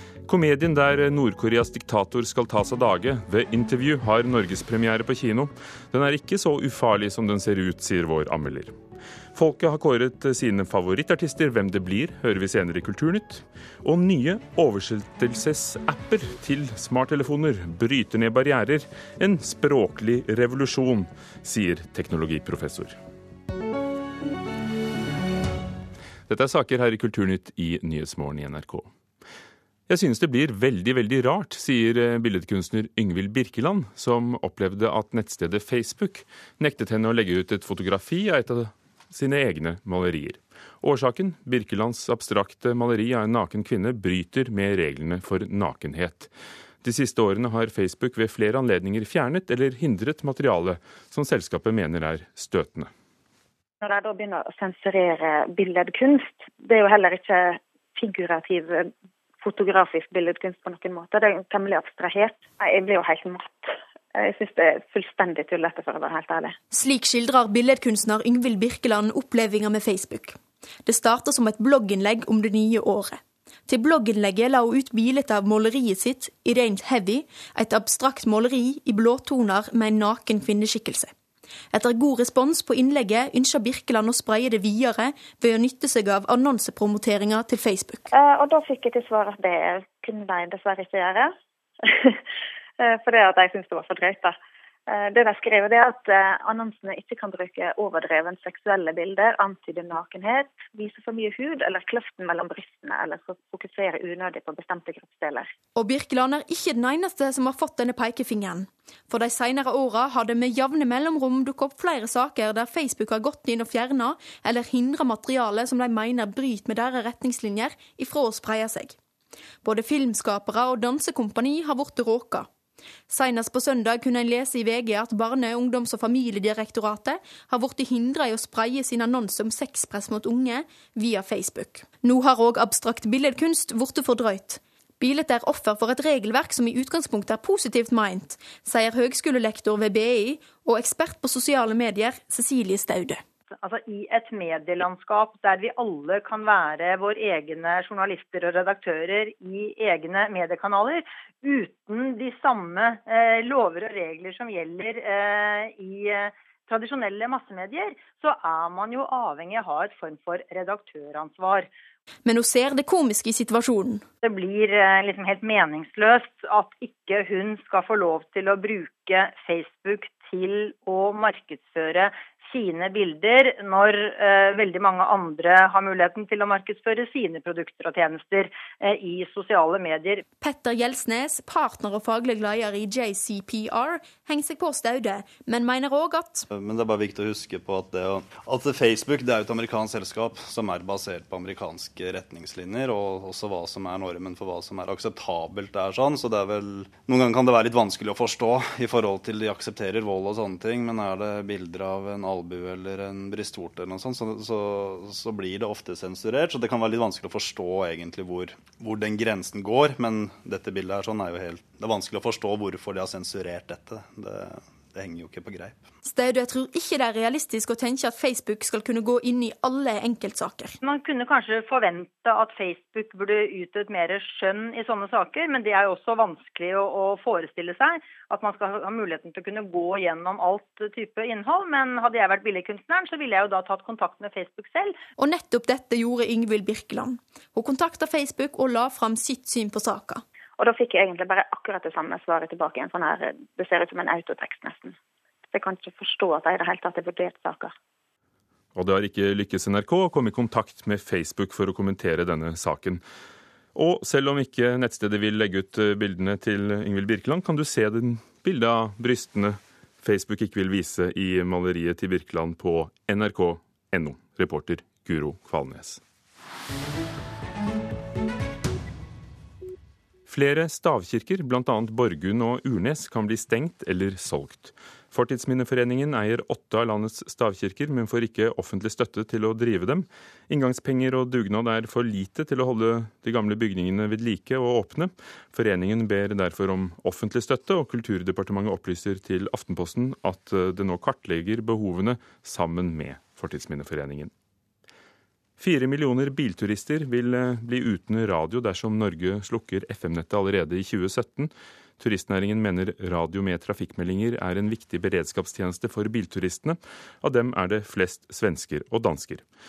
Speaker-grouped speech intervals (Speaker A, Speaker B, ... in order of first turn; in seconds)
Speaker A: 0.3-8.8, 9.3-23.0, 26.3-28.9, 29.9-46.3, 46.8-52.9, 248.8-253.0, 253.8-266.0, 270.3-294.3, 295.6-309.4
Speaker B: 53.8-58.9, 59.4-66.5, 88.1-91.3, 91.8-92.2, 92.8-94.4, 94.9-105.5, 240.6-244.9, 245.5-247.7
Speaker C: 66.7-81.1, 81.7-88.1, 105.8-119.0, 119.6-122.5, 123.1-143.2, 162.3-164.0, 180.4-186.5, 216.1-220.8, 235.2-240.2
Speaker D: 143.6-161.7, 164.2-180.2, 220.8-235.0
Speaker E: 186.5-215.8